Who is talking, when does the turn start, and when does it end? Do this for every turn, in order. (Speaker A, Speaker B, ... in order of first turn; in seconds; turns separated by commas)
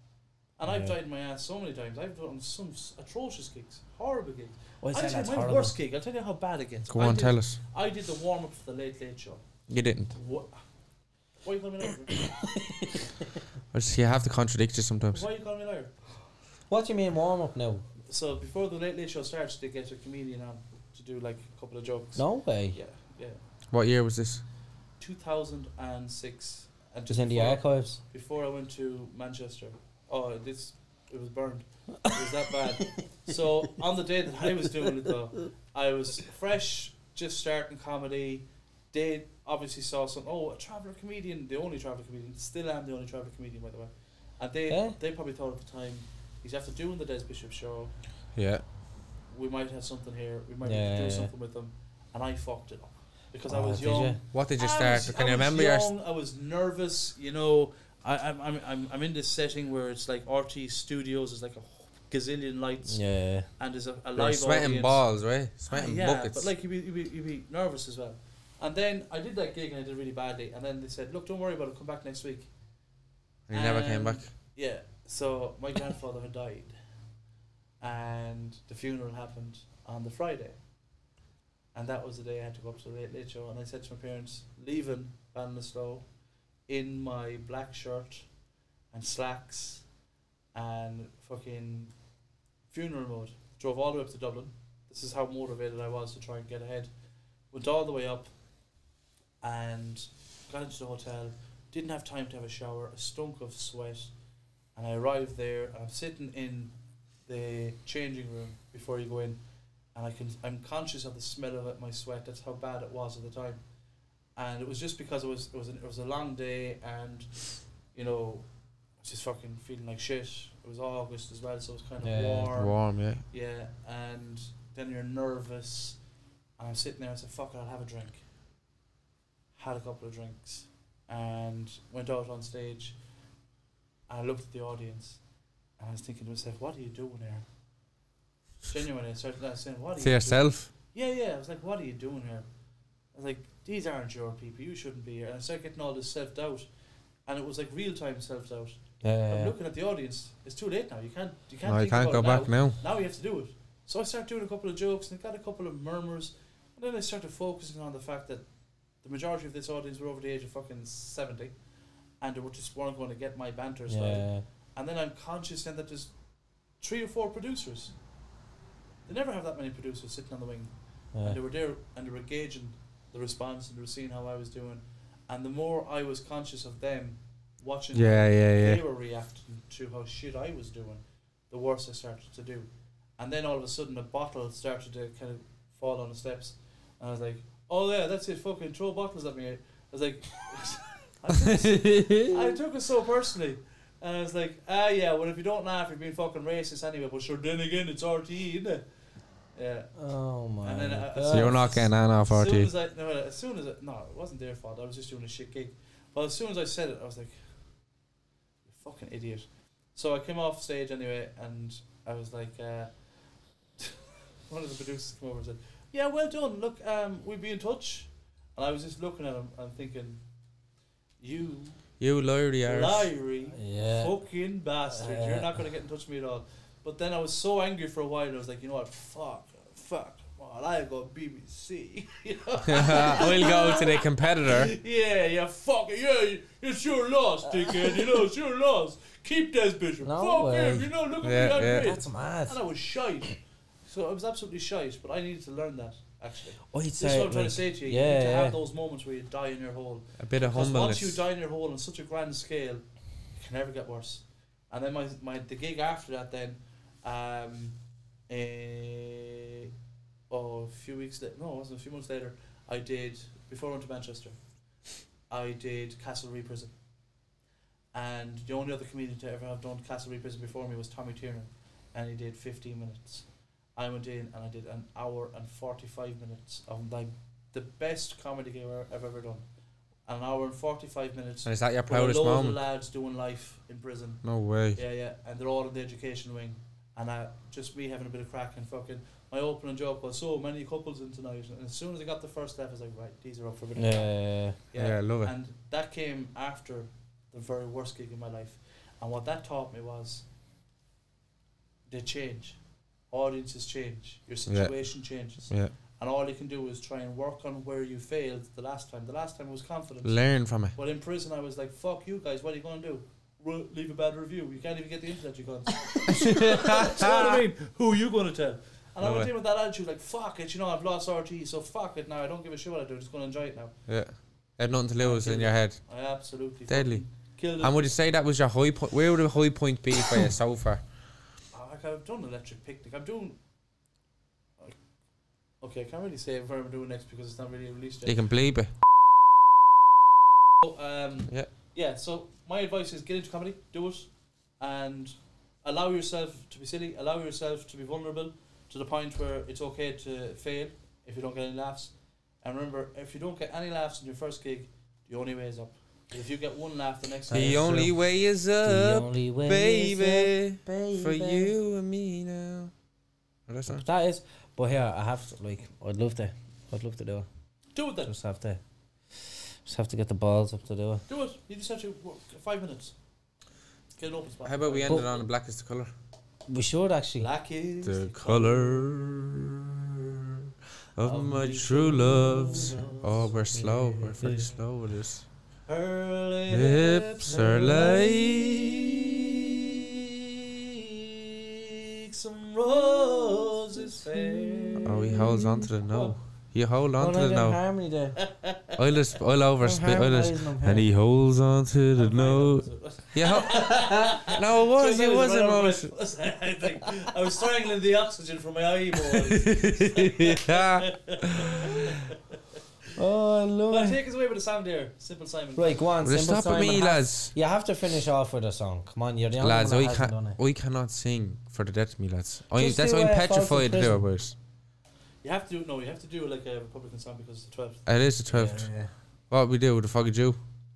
Speaker A: 0.6-9.4, Speaker B: 0.6-1.0, Speaker B: 4.8-5.8, Speaker C: 6.9-7.6, Speaker C: 9.7-10.1, Speaker A: 10.1-10.6, Speaker A: 11.4-12.2, Speaker B: 12.4-13.1, Speaker C: 13.7-15.2, Speaker A: 15.1-15.9, Speaker B: 16.7-17.8, Speaker A: 18.1-23.4, Speaker B: 22.1-22.8, Speaker C: 23.7-24.4, Speaker A: 25.0-47.9, Speaker B: 27.1-28.0, Speaker B: 44.7-45.0, Speaker C: 48.4-48.6, Speaker A: 49.3-65.0, Speaker B: 50.6-51.3, Speaker B: 53.5-54.2, Speaker C: 54.3-55.9, Speaker B: 62.9-63.5, Speaker C: 64.1-66.5, Speaker A: 65.7-72.5, Speaker C: 73.5-74.3, Speaker A: 73.5-76.7, Speaker A: 77.8-80.6, Speaker A: 81.7-86.0, Speaker A: 86.7-88.3, Speaker A: 88.9-89.8, Speaker A: 90.5-91.9, Speaker A: 92.7-96.9, Speaker A: 97.5-98.3, Speaker A: 99.4-104.1, Speaker A: 104.8-106.7, Speaker A: 107.2-109.4, Speaker A: 109.9-113.6, Speaker A: 114.3-118.5, Speaker A: 119.0-126.0, Speaker B: 122.0-122.5, Speaker C: 122.5-123.2, Speaker A: 126.6-128.2, Speaker A: 129.5-132.9, Speaker A: 134.1-135.2, Speaker A: 135.8-137.4, Speaker A: 138.7-142.4, Speaker C: 140.0-140.7, Speaker A: 143.1-146.7, Speaker A: 147.2-158.4, Speaker B: 149.0-149.5, Speaker C: 151.6-152.8, Speaker A: 159.0-161.5, Speaker A: 162.2-166.1, Speaker B: 163.9-164.4, Speaker A: 166.8-167.9, Speaker A: 169.1-198.8, Speaker B: 171.1-171.4, Speaker C: 177.9-178.8, Speaker C: 191.3-192.3, Speaker A: 199.5-199.9, Speaker B: 199.9-201.9, Speaker A: 200.6-207.5, Speaker C: 201.3-202.7, Speaker A: 208.7-212.9, Speaker A: 213.8-220.2, Speaker A: 221.2-221.8, Speaker C: 222.0-223.1, Speaker A: 222.6-243.3, Speaker B: 223.5-224.2, Speaker B: 224.9-225.6, Speaker C: 232.6-234.7, Speaker B: 237.7-238.0, Speaker B: 240.0-240.9, Speaker C: 241.2-241.9, Speaker B: 241.7-242.6, Speaker A: 243.9-257.8, Speaker B: 246.7-248.6, Speaker C: 250.2-251.2, Speaker A: 258.3-259.7, Speaker A: 260.3-264.4, Speaker A: 265.3-266.7, Speaker A: 267.9-279.4, Speaker A: 280.1-284.2, Speaker C: 281.4-282.6, Speaker C: 284.2-284.8, Speaker A: 284.7-300.2, Speaker B: 293.8-294.6, Speaker C: 294.7-295.3, Speaker A: 301.9-302.6, Speaker A: 303.1-310.2, Speaker C: 304.5-304.7, Speaker C: 305.5-305.7, Speaker C: 310.0-310.7, Speaker A: 310.7-323.7, Speaker C: 316.1-317.4, Speaker C: 319.0-319.3, Speaker C: 323.9-325.8, Speaker A: 325.0-327.9, Speaker C: 326.7-327.0, Speaker C: 327.6-330.8, Speaker A: 331.5-333.4, Speaker A: 335.6-338.2, Speaker C: 338.1-338.7, Speaker A: 340.6-344.1, Speaker A: 344.6-351.9, Speaker A: 352.4-357.7, Speaker B: 357.3-357.9, Speaker C: 357.3-362.7, Speaker B: 358.6-361.5, Speaker C: 363.5-363.8, Speaker B: 363.7-367.3, Speaker A: 367.7-368.1, Speaker B: 368.0-368.6, Speaker B: 369.2-371.0, Speaker A: 371.1-372.9, Speaker A: 373.9-375.2, Speaker C: 374.4-375.9, Speaker B: 376.5-377.3, Speaker A: 377.2-379.0, Speaker C: 377.8-379.6, Speaker C: 380.9-385.2, Speaker A: 381.0-383.7, Speaker B: 382.4-382.9, Speaker B: 383.5-384.6, Speaker A: 385.6-389.9, Speaker C: 386.5-388.9, Speaker A: 391.1-395.2, Speaker B: 394.0-395.6, Speaker C: 394.8-397.6, Speaker A: 395.7-396.2, Speaker B: 397.0-398.2, Speaker A: 398.2-398.8, Speaker C: 398.8-405.9, Speaker B: 399.6-400.9, Speaker A: 401.9-412.4, Speaker C: 409.1-411.9, Speaker B: 412.9-414.0, Speaker A: 413.7-415.9, Speaker B: 415.5-420.4, Speaker C: 416.0-417.3, Speaker C: 419.4-424.3, Speaker B: 422.6-424.0, Speaker A: 425.2-427.9, Speaker C: 427.9-428.7, Speaker B: 428.3-428.9, Speaker C: 429.3-430.4